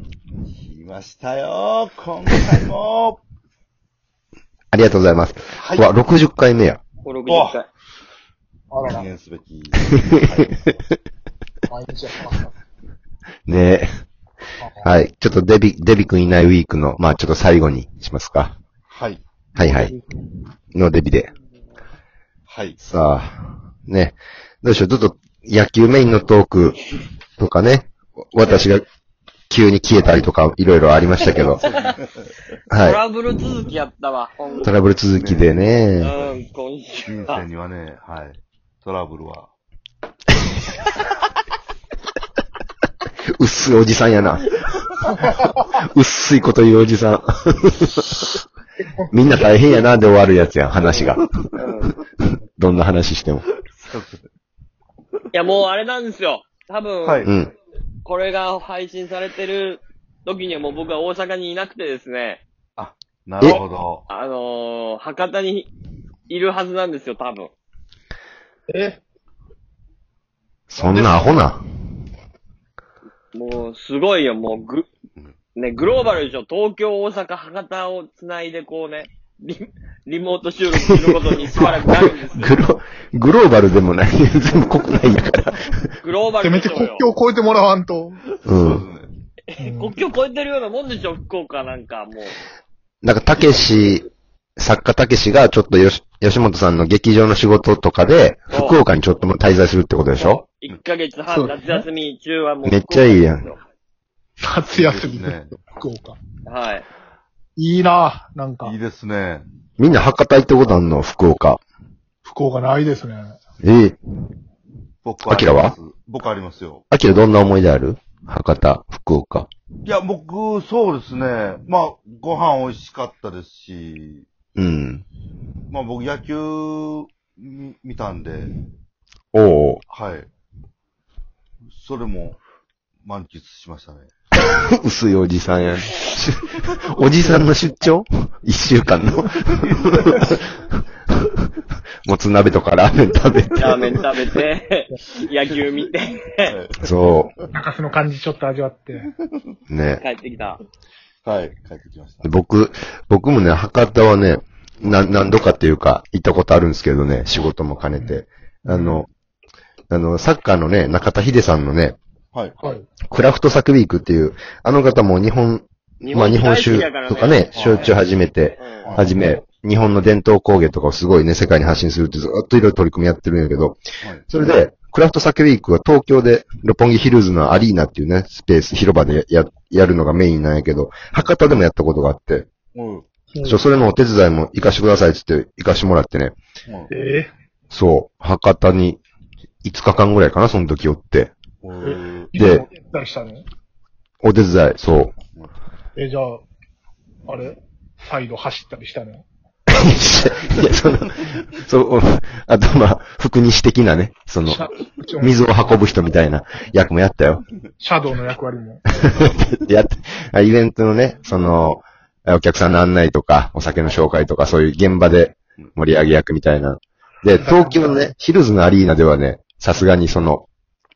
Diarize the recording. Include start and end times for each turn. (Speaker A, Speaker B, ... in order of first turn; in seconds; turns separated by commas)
Speaker A: 0.4-3.2, Speaker B: 4.7-6.8, Speaker A: 5.5-5.9, Speaker C: 7.0-7.7, Speaker A: 7.2-7.6, Speaker D: 8.7-9.1, Speaker A: 8.8-10.8, Speaker D: 11.7-12.5, Speaker B: 13.5-13.9, Speaker D: 14.6-14.9, Speaker B: 14.8-18.5, Speaker A: 18.9-19.2, Speaker B: 19.6-19.9, Speaker B: 20.7-21.3, Speaker A: 22.5-22.8, Speaker B: 22.8-26.8, Speaker B: 27.4-28.9, Speaker B: 29.5-31.6, Speaker C: 31.3-32.0, Speaker A: 31.3-31.8, Speaker B: 32.7-33.0, Speaker C: 32.7-34.7, Speaker B: 34.6-36.1, Speaker A: 35.1-36.4, Speaker C: 36.0-37.4, Speaker A: 37.0-39.5, Speaker B: 43.4-44.5, Speaker B: 45.6-48.1, Speaker D: 48.8-49.3, Speaker B: 49.1-51.2, Speaker C: 50.8-51.9, Speaker B: 52.6-53.5, Speaker A: 53.6-54.3, Speaker C: 55.3-57.2, Speaker A: 57.0-57.3, Speaker B: 57.2-57.5, Speaker C: 58.0-62.4, Speaker A: 62.8-64.1, Speaker C: 64.1-65.7, Speaker C: 66.3-67.5, Speaker D: 68.7-69.0, Speaker B: 70.7-71.6, Speaker D: 70.7-71.5, Speaker C: 73.3-74.9, Speaker C: 75.5-82.6, Speaker B: 80.8-85.8, Speaker C: 86.0-87.0, Speaker D: 86.4-88.2, Speaker B: 88.4-88.8, Speaker A: 88.5-89.1, Speaker C: 89.5-92.3, Speaker D: 89.6-90.0, Speaker B: 93.0-94.0, Speaker B: 94.6-100.4, Speaker C: 98.5-98.8, Speaker C: 100.2-103.6, Speaker D: 101.3-101.8, Speaker B: 102.6-103.5, Speaker D: 104.4-106.2, Speaker A: 104.7-105.6, Speaker C: 106.4-106.8, Speaker D: 107.5-108.8, Speaker A: 108.6-109.4, Speaker B: 109.8-111.6, Speaker D: 112.2-113.4, Speaker B: 113.6-114.0, Speaker A: 115.0-116.8, Speaker B: 115.2-115.8, Speaker B: 116.9-119.5, Speaker A: 119.8-124.3, Speaker B: 124.5-125.0, Speaker A: 125.7-128.5, Speaker B: 129.3-129.8, Speaker A: 129.9-130.3, Speaker A: 131.7-132.4, Speaker A: 133.0-134.1, Speaker B: 134.4-140.1, Speaker A: 139.6-140.4, Speaker B: 142.1-143.7, Speaker C: 143.5-146.5, Speaker A: 146.4-147.0, Speaker B: 146.8-147.3, Speaker D: 147.5-149.1, Speaker A: 149.0-149.5, Speaker B: 149.7-150.0, Speaker C: 149.9-150.6, Speaker A: 151.2-152.3, Speaker B: 152.2-159.1, Speaker A: 154.8-155.2, Speaker D: 158.0-159.1, Speaker B: 159.9-162.0, Speaker D: 162.6-162.9, Speaker B: 163.1-182.5, Speaker C: 166.0-167.9, Speaker A: 167.5-167.9, Speaker C: 168.6-168.9, Speaker A: 168.8-169.2, Speaker A: 182.7-183.1, Speaker D: 183.3-183.6, Speaker B: 183.4-186.4, Speaker D: 186.9-187.3, Speaker B: 187.7-189.0, Speaker B: 189.6-191.3, Speaker A: 191.6-192.3, Speaker D: 191.8-193.4, Speaker B: 192.3-192.6, Speaker B: 194.2-195.1, Speaker D: 195.9-196.4, Speaker D: 197.3-199.3, Speaker B: 199.7-204.6, Speaker D: 204.4-205.5, Speaker B: 205.2-207.4, Speaker D: 207.8-208.8, Speaker A: 209.2-209.4, Speaker B: 209.4-220.5, Speaker D: 217.4-218.0